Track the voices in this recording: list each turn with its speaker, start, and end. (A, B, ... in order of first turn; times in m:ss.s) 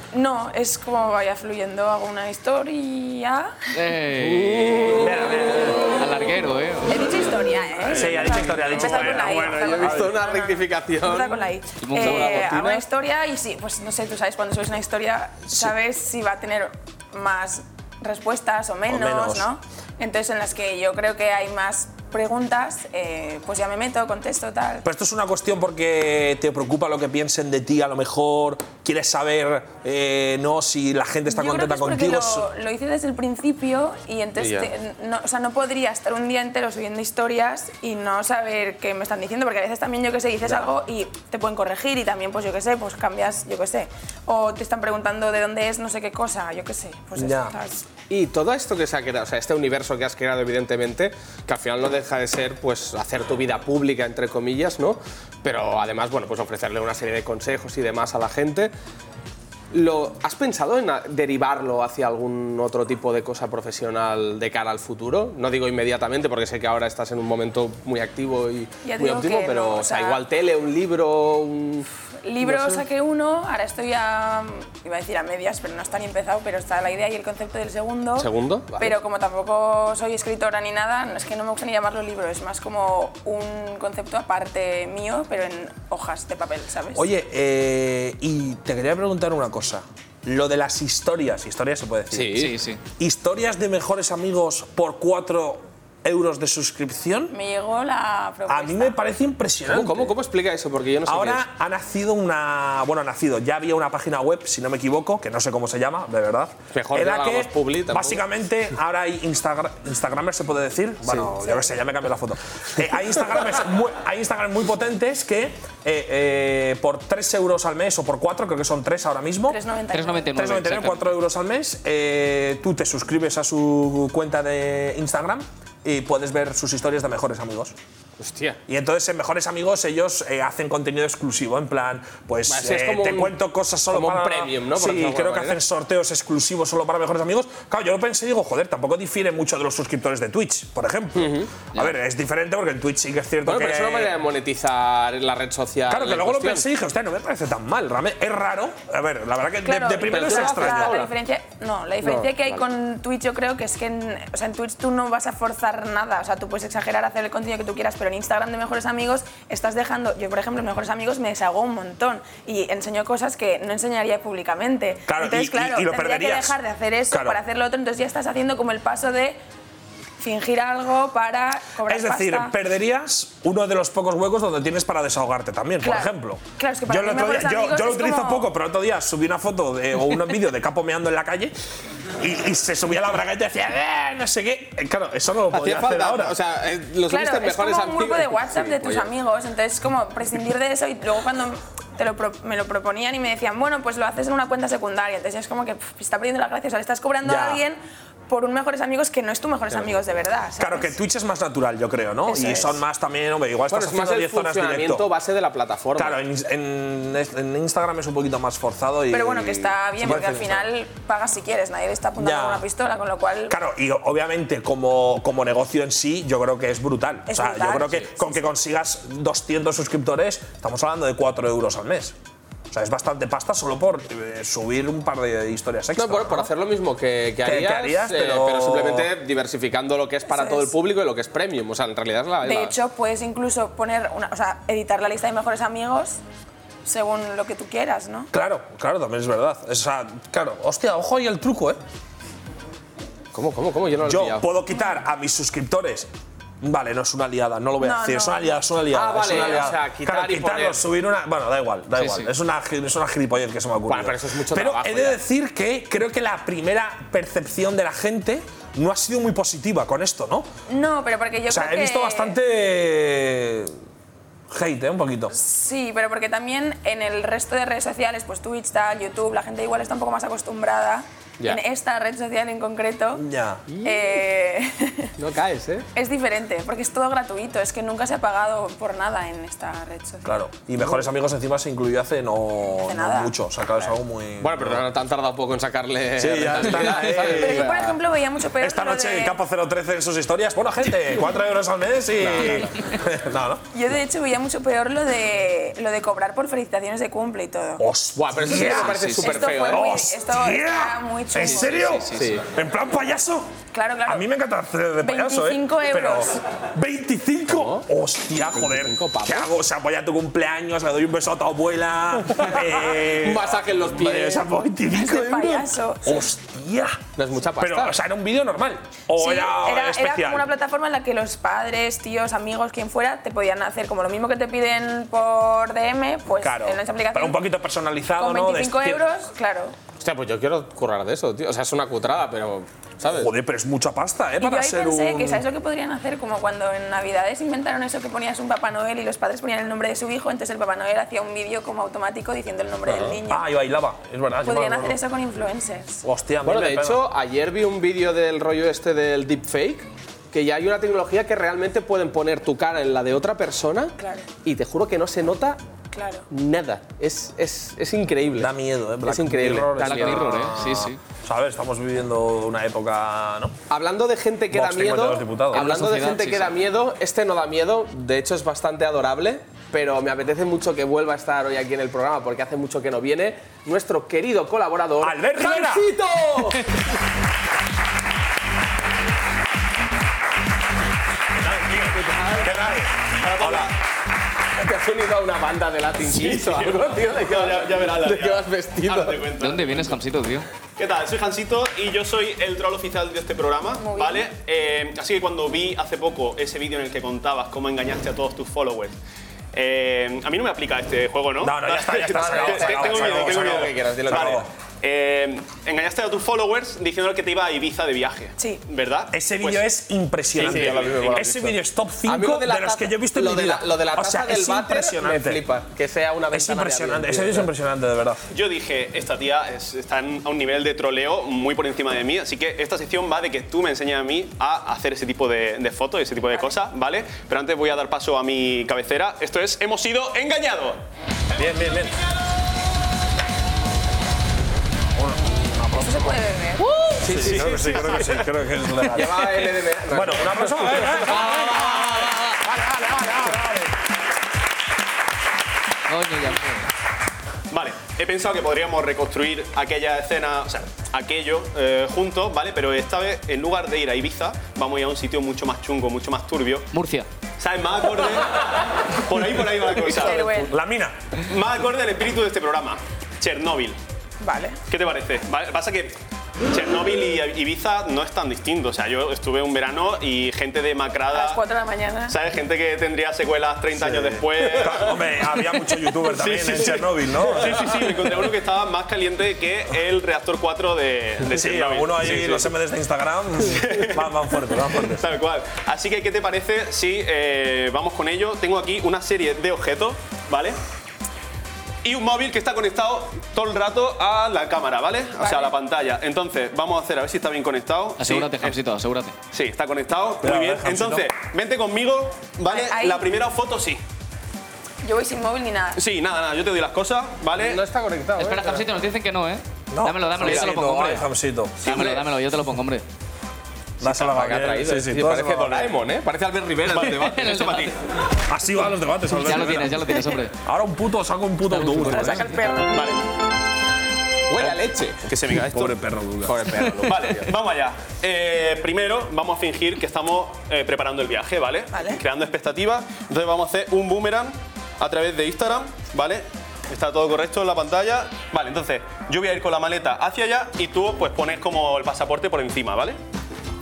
0:00.1-0:03.6 A
0:03.7-0:05.3 B
0:04.2-0:05.1 C
0:04.9-0:05.9 D
0:05.8-0:07.0 B
0:06.9-0:24.9 A
0:07.8-0:10.2 D
0:07.9-0:12.8 C
0:11.8-0:12.5 B
0:18.9-0:19.5 D
0:24.8-0:32.5 D
0:31.3-0:47.8 A
0:34.4-0:34.7 C
0:47.2-0:47.6 D
0:48.1-0:58.7 C
0:59.7-1:11.9 C
1:08.8-1:10.2 A
1:12.2-1:27.0 A
1:12.4-1:12.8 C
1:18.2-1:19.0 C
1:27.0-1:37.3 D
1:32.1-1:32.6 C
1:32.3-1:32.8 B
1:37.3-1:39.0 A
1:38.5-1:40.2 D
1:39.7-1:41.4 C
1:41.1-1:59.6 D
1:46.7-1:48.2 C
1:59.5-2:00.4 A
1:59.9-2:01.1 B
2:00.3-2:07.8 D
2:08.2-2:08.6 C
2:08.7-2:24.2 D
2:12.5-2:13.4 C
2:13.9-2:15.6 C
2:21.2-2:21.5 C
2:23.4-2:26.6 C
2:25.9-2:31.0 D
2:29.6-2:49.4 A
2:30.1-2:31.1 C
2:32.0-2:32.6 C
2:45.1-2:46.6 D
2:47.1-2:47.4 D
2:50.2-2:52.5 A
2:51.8-3:01.6 D
2:55.8-2:58.5 A
3:02.2-3:06.4 D
3:05.5-3:09.1 C
3:07.1-3:20.9 A
3:17.2-3:17.6 D
3:20.6-3:25.1 D
3:22.3-3:22.8 A
3:23.7-3:26.2 C
3:26.0-3:30.7 D
3:29.1-3:33.6 A
3:32.2-3:32.6 D
3:33.5-3:42.2 D
3:37.3-3:38.3 A
3:42.7-3:46.5 D
3:46.0-3:52.8 C
3:47.4-3:49.1 D
3:50.3-3:50.7 A
3:52.4-3:56.2 A
3:56.8-3:58.3 A
3:58.3-4:01.8 D
4:03.3-4:04.5 C
4:04.0-4:06.1 D
4:06.6-4:20.5 D
4:07.8-4:08.6 A
4:08.9-4:10.8 C
4:12.0-4:12.3 B
4:13.9-4:15.2 C
4:20.7-4:22.4 A
4:21.5-4:23.7 D
4:24.5-4:25.4 D
4:25.3-4:33.2 A
4:33.2-4:33.6 D
4:33.7-4:34.2 C
4:33.8-4:35.1 A
4:35.2-4:35.9 C
4:36.0-4:40.3 A
4:40.2-4:44.8 D
4:42.8-4:43.3 A
4:44.4-4:48.0 C
4:46.2-4:47.8 D
4:47.2-4:49.4 A
4:48.6-4:53.6 D
4:52.2-4:52.6 C
4:53.7-4:57.8 A
4:57.8-5:03.5 D
4:58.2-4:59.9 C
4:58.8-4:59.4 B
4:59.1-5:02.0 A
5:01.4-5:02.4 B
5:02.1-5:02.5 C
5:03.7-5:04.3 A
5:04.0-5:17.0 D
5:05.0-5:06.4 A
5:07.5-5:07.9 C
5:08.5-5:09.5 C
5:12.4-5:14.5 C
5:14.9-5:16.2 A
5:17.2-5:18.0 C
5:17.6-5:20.5 D
5:19.2-5:27.4 A
5:26.4-5:29.1 D
5:28.2-5:29.8 A
5:30.0-5:33.3 C
5:33.1-5:35.4 D
5:34.4-5:43.5 A
5:42.9-5:43.2 C
5:43.3-5:45.0 D
5:44.4-5:46.0 A
5:46.0-5:47.1 D
5:46.4-5:55.6 C
5:54.0-5:54.3 A
5:55.9-5:56.2 A
5:56.3-5:58.5 C
5:58.4-6:03.5 D
5:59.0-6:00.6 C
5:59.8-6:01.0 B
6:03.7-6:16.8 C
6:04.5-6:05.7 D
6:05.5-6:06.5 B
6:15.0-6:15.9 D
6:21.4-6:23.7 E
6:22.0-6:22.5 C
6:22.4-6:22.9 D
6:23.4-6:23.7 D
6:24.6-6:29.3 C
6:26.1-6:29.9 E
6:29.4-6:30.5 B
6:30.8-6:39.0 E
6:33.8-6:34.2 A
6:39.5-6:49.6 E
6:41.4-6:44.5 D
6:42.1-6:44.4 C
6:48.4-6:48.6 A
6:49.1-6:55.4 D
6:50.4-6:51.3 E
6:50.4-6:57.5 C
6:56.3-6:58.2 D
6:58.3-7:10.8 E
7:11.4-7:12.0 D
7:15.0-7:16.2 D
7:15.8-7:16.7 A
7:17.0-7:18.2 C
7:17.1-7:23.7 D
7:17.2-7:18.1 E
7:18.9-7:21.7 C
7:21.3-7:21.8 B
7:25.9-7:26.6 B
7:27.5-7:36.7 E
7:36.7-7:37.1 B
7:37.4-7:40.3 E
7:39.9-7:40.6 A
7:40.4-7:41.0 D
7:41.2-7:43.8 E
7:44.2-7:44.6 A
7:44.7-7:46.0 E
7:46.5-7:51.4 E
7:51.1-7:52.2 A
7:52.1-7:55.0 E
7:53.8-7:57.9 D
7:56.1-8:02.5 E
8:01.3-8:05.1 D
8:03.5-8:04.1 E
8:04.8-8:10.6 E
8:11.8-8:18.5 E
8:15.2-8:15.5 A
8:18.0-8:19.2 B
8:19.3-8:23.8 E
8:20.2-8:21.1 D
8:22.5-8:23.1 A
8:24.8-8:25.8 A
8:25.8-8:27.6 E
8:27.4-8:28.6 C
8:28.2-8:31.1 B
8:29.7-8:31.6 D
8:30.2-8:30.5 C
8:31.6-8:32.8 B
8:31.6-8:32.0 E
8:33.8-8:35.7 D
8:33.8-8:37.4 C
8:36.7-8:37.7 E
8:37.0-8:37.7 B
8:38.3-8:42.3 D
8:39.1-8:40.3 B
8:41.5-8:42.3 B
8:41.9-8:42.9 A
8:42.7-8:43.0 E
8:44.3-8:45.0 C
8:45.1-8:45.8 E
8:45.4-8:46.4 D
8:46.3-8:47.3 C
8:46.8-9:03.0 E
8:51.7-8:52.0 A